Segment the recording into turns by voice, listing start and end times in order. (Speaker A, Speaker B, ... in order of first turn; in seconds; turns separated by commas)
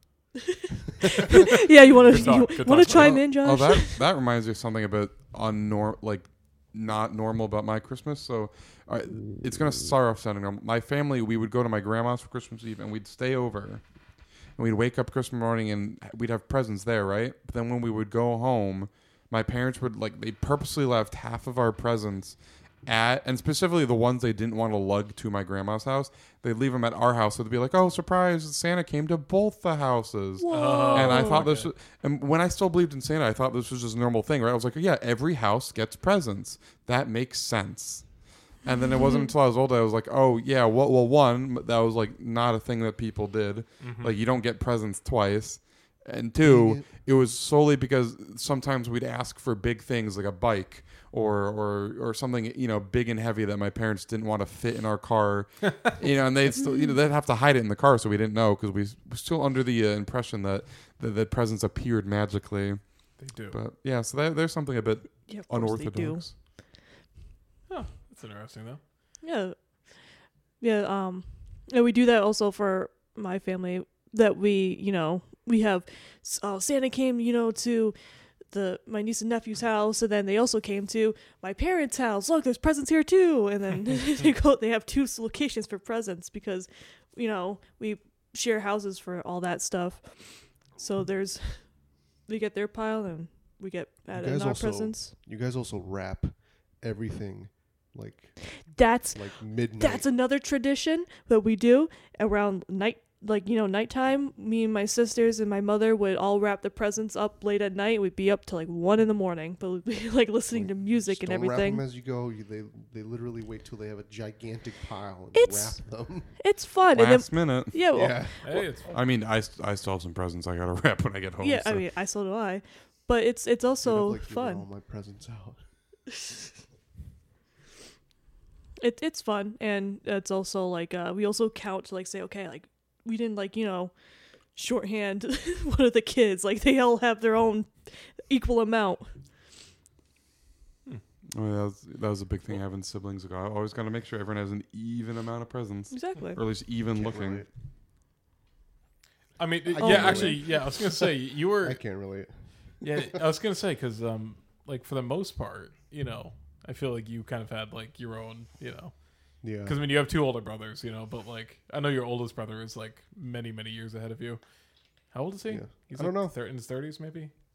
Speaker A: 0.4-4.0, Speaker B: 1.0-1.5, Speaker C: 1.3-3.2, Speaker D: 2.8-13.8, Speaker D: 14.6-38.0, Speaker A: 30.4-31.5, Speaker C: 30.5-31.7, Speaker D: 38.6-62.8, Speaker A: 38.6-39.3, Speaker C: 43.8-44.1, Speaker B: 46.4-46.9, Speaker A: 56.6-56.9, Speaker C: 63.2-63.6, Speaker D: 63.5-66.3, Speaker A: 65.3-66.3, Speaker C: 67.7-68.8, Speaker A: 69.2-69.5, Speaker A: 70.6-78.0, Speaker A: 78.5-90.2, Speaker A: 90.7-91.6, Speaker A: 92.3-95.1, Speaker B: 94.1-98.4, Speaker A: 98.7-99.3, Speaker B: 99.1-100.0, Speaker A: 99.8-111.8, Speaker B: 110.5-116.3, Speaker A: 115.3-115.8, Speaker A: 116.4-118.3, Speaker D: 116.9-117.8, Speaker B: 117.9-118.5, Speaker C: 118.4-118.9, Speaker D: 118.9-121.8, Speaker A: 121.4-124.6, Speaker B: 123.8-125.6, Speaker A: 128.8-133.9, Speaker A: 134.5-139.1, Speaker D: 141.3-147.4, Speaker A: 145.9-146.4, Speaker B: 146.9-147.5, Speaker C: 149.4-151.8, Speaker B: 149.7-151.1, Speaker A: 149.8-150.5, Speaker B: 151.6-153.2, Speaker C: 152.8-158.9, Speaker B: 159.4-159.8, Speaker C: 159.6-164.4, Speaker C: 165.1-167.3, Speaker B: 165.5-166.3